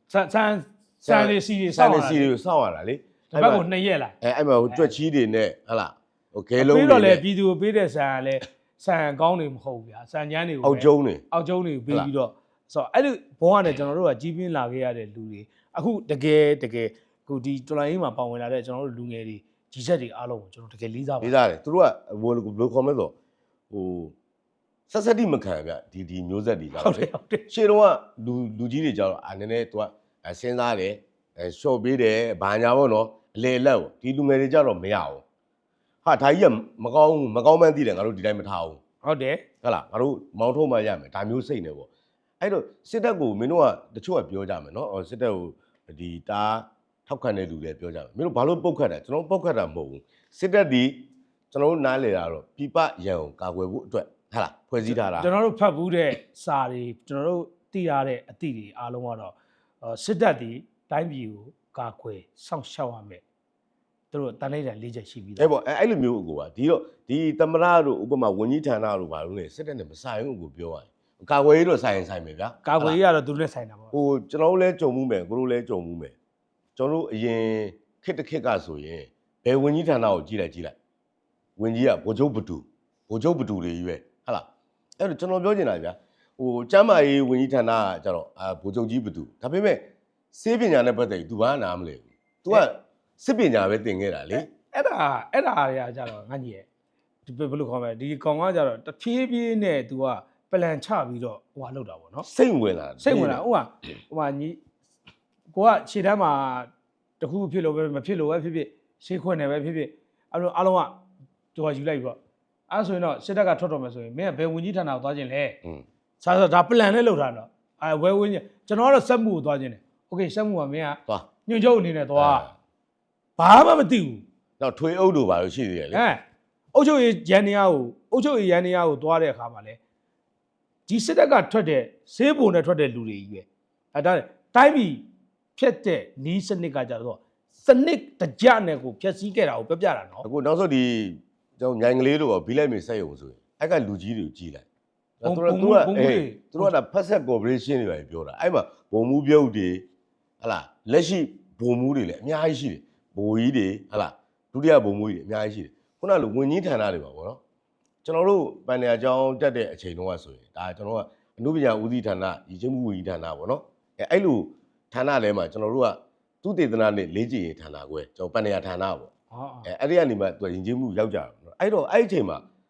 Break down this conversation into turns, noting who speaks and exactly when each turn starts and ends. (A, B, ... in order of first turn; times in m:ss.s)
0:00.1-0:02.3 A
0:01.0-0:03.6 B
0:03.3-0:04.2 A
0:04.2-0:07.2 B
0:06.6-0:21.4 A
0:10.6-0:11.2 B
0:21.2-0:23.1 B
0:23.7-0:24.1 B
0:24.9-0:35.2 B
0:26.8-0:27.4 A
0:36.0-0:38.8 B
0:39.0-0:39.4 A
0:39.6-0:41.9 B
0:42.4-0:51.0 B
0:51.5-0:55.3 B
0:54.8-1:03.2 A
1:04.1-1:05.5 A
1:05.4-1:13.0 B
1:12.6-1:13.9 A
1:13.9-1:16.2 B
1:16.8-1:20.8 B
1:21.6-1:24.5 B
1:25.0-1:34.5 B
1:34.5-1:36.7 A
1:37.3-1:42.3 A
1:42.2-1:43.4 B
1:43.0-1:44.6 A
1:45.5-1:46.7 A
1:47.2-1:51.0 A
1:51.6-1:52.2 A
1:52.7-1:55.6 A
1:56.2-2:02.5 A
2:02.2-2:02.5 B
2:03.4-2:04.2 A
2:04.6-2:06.0 B
2:05.9-2:06.2 A
2:06.7-2:09.8 A
2:10.9-2:15.0 A
2:15.6-2:20.3 A
2:20.2-2:24.7 B
2:25.2-2:29.8 B
2:25.2-2:26.7 A
2:30.4-2:37.4 B
2:38.0-2:49.1 B
2:49.3-2:49.7 A
2:49.6-2:52.4 B